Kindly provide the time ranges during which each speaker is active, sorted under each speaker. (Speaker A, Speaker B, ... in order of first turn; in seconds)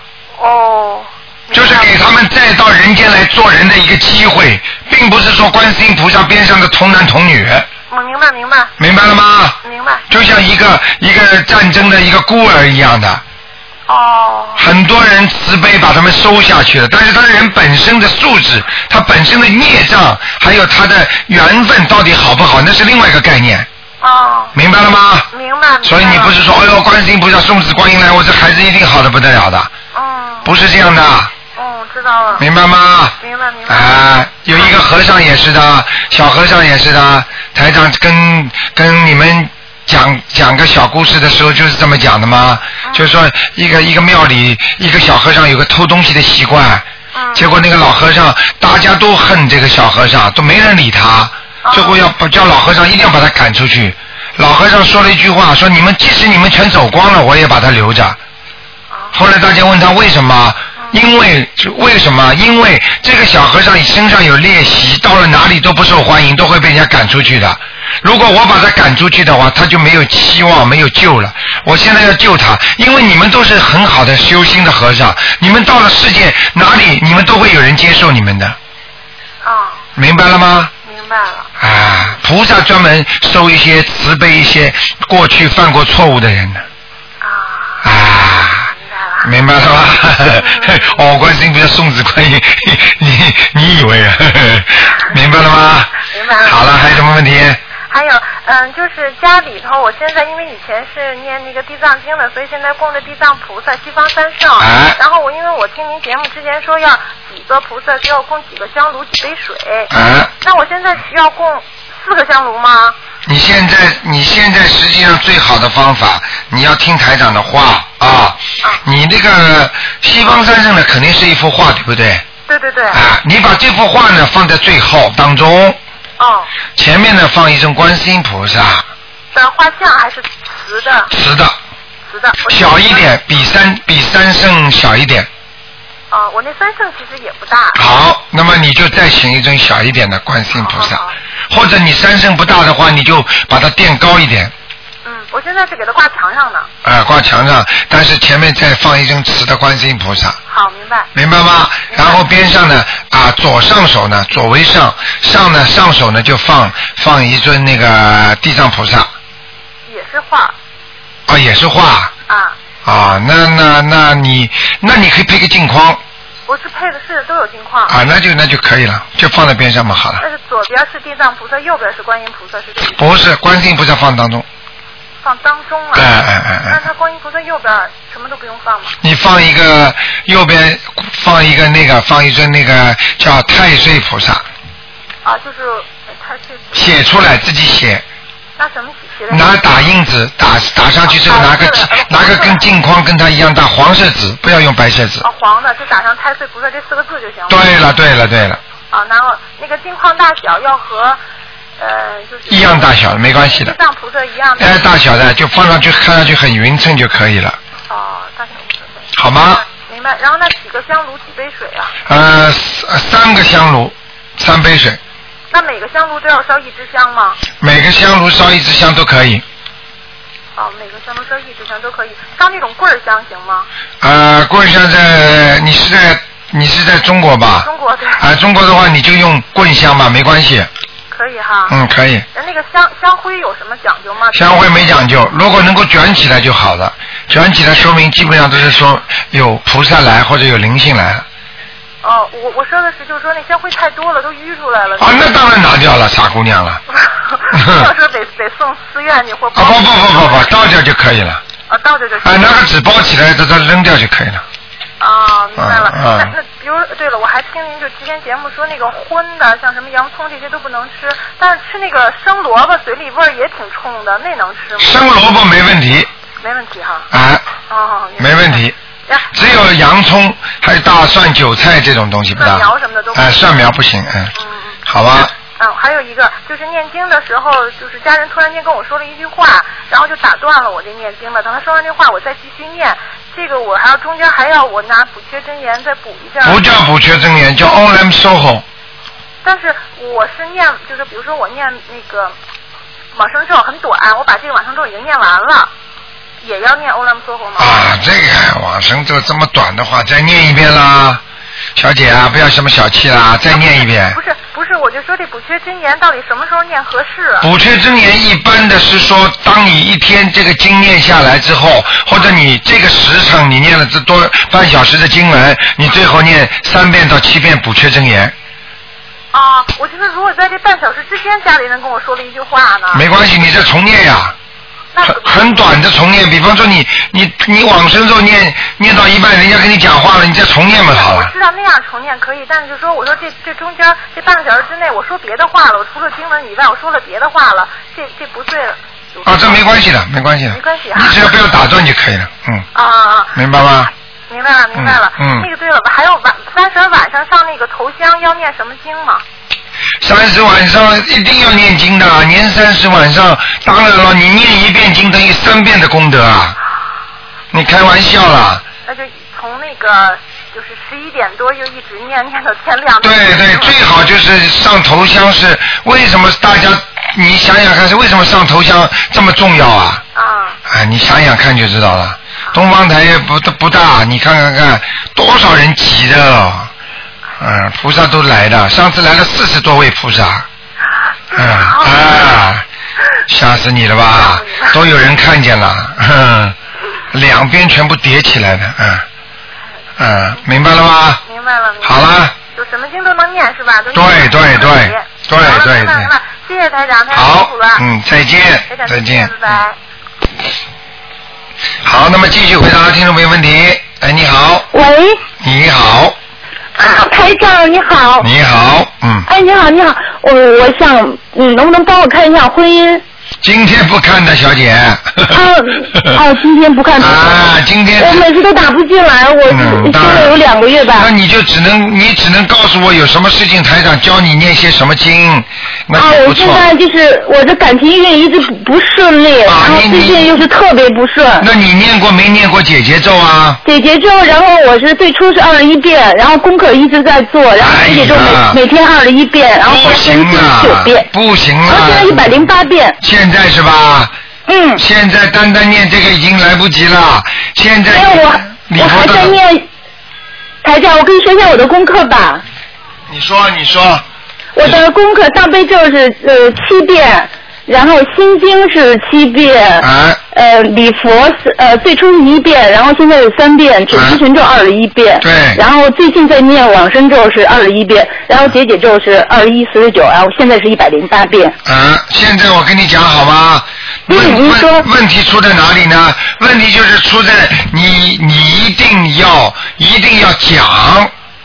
Speaker A: 0.4-1.9, 7.9-8.7, 9.6-10.0, 13.9-14.6, 24.0-24.5, 25.3-26.4, 29.9-30.5, 31.5-32.4, 33.2-34.0, 42.8-43.1, 47.1-47.5, 51.6-52.0, 58.9-59.2, 79.4-79.8, 80.8-81.5, 87.2-87.9, 88.5-89.3, 90.3-91.0, 96.0-96.7, 97.9-113.0, 122.5-123.0, 126.2-126.5, 129.3-131.1, 132.1-133.1, 136.1-137.8, 140.5-141.1, 145.0-146.7, 150.5-151.1, 151.9-152.2, 159.9-160.5, 162.3-162.6, 166.5-167.9, 170.2-173.0, 175.2-178.9, 185.2-186.8, 188.6-189.7, 191.1-192.6, 195.2-197.6, 198.9-201.2, 201.8-204.8, 207.9-211.9, 215.5-217.4, 220.6-223.7, 227.6-228.2, 231.1-231.8, 232.3-234.8, 242.0-245.3, 246.9-250.5, 251.7-252.6, 255.0-265.0, 266.4-267.1, 267.7-269.3, 272.3-273.5, 274.4-286.6, 289.4-292.3, 293.1-295.7, 296.4-297.8, 303.5-307.5, 319.3-323.0, 324.9-325.5, 330.8-339.6, 340.5-341.3, 342.7-349.2, 358.9-363.8, 370.1-370.6, 381.3-382.4, 384.1-384.8, 391.2-397.8, 398.7-399.8
Speaker B: 1.5-7.7, 8.8-9.6, 10.1-13.2, 14.6-23.7, 24.5-25.3, 25.8-29.7, 30.4-31.3, 32.4-33.1, 33.7-58.2, 59.1-78.6, 80.0-80.7, 81.6-86.6, 87.8-88.7, 89.2-97.6, 104.6-105.0, 109.9-110.3, 113.2-122.2, 122.9-125.8, 126.8-128.8, 131.1-131.6, 132.5-135.3, 137.7-144.5, 146.8-150.4, 151.1-159.1, 161.3-162.1, 162.8-166.0, 167.9-170.2, 172.9-174.4, 175.9-176.8, 179.0-184.4, 186.7-188.0, 189.3-195.2, 197.5-198.6, 202.5-203.7, 204.6-207.6, 209.1-209.6, 212.1-215.0, 217.6-219.4, 224.0-230.7, 231.7-232.2, 234.3-241.2, 245.0-246.8, 247.5-247.9, 249.5-251.4, 252.2-254.4, 255.6-256.3, 264.8-266.1, 267.1-267.4, 268.2-268.7, 269.3-274.3, 274.9-275.3, 286.4-288.6, 297.6-301.2, 301.8-304.2, 307.4-318.3, 322.9-324.3, 325.0-331.3, 339.2-342.6, 343.3-343.9, 344.7-345.5, 350.0-356.6, 357.5-358.6, 363.0-370.0, 370.7-376.7, 377.4-380.4, 381.3-382.6, 383.3-386.6, 387.1-389.0, 390.0-391.2, 391.8-392.3, 393.9-396.1, 397.1-399.3, 401.8-404.7, 405.4-406.1, 408.2-409.2, 413.4-416.2, 417.0-418.3, 419.5-420.4, 420.9-426.6, 429.4-430.4, 431.4-433.6, 437.6-438.6, 439.6-442.3, 443.0-444.1, 444.8-449.4, 453.1-454.0, 459.8-460.2, 463.9-464.2, 465.2-465.6, 471.6-481.1
Speaker C: 404.7-405.2, 406.8-408.3, 409.3-413.0, 415.3-417.4, 418.0-421.1, 425.9-431.5, 433.6-441.1, 441.6-443.0, 444.5-444.8, 447.9-449.6, 450.6-452.4, 454.6-471.6, 474.1-474.9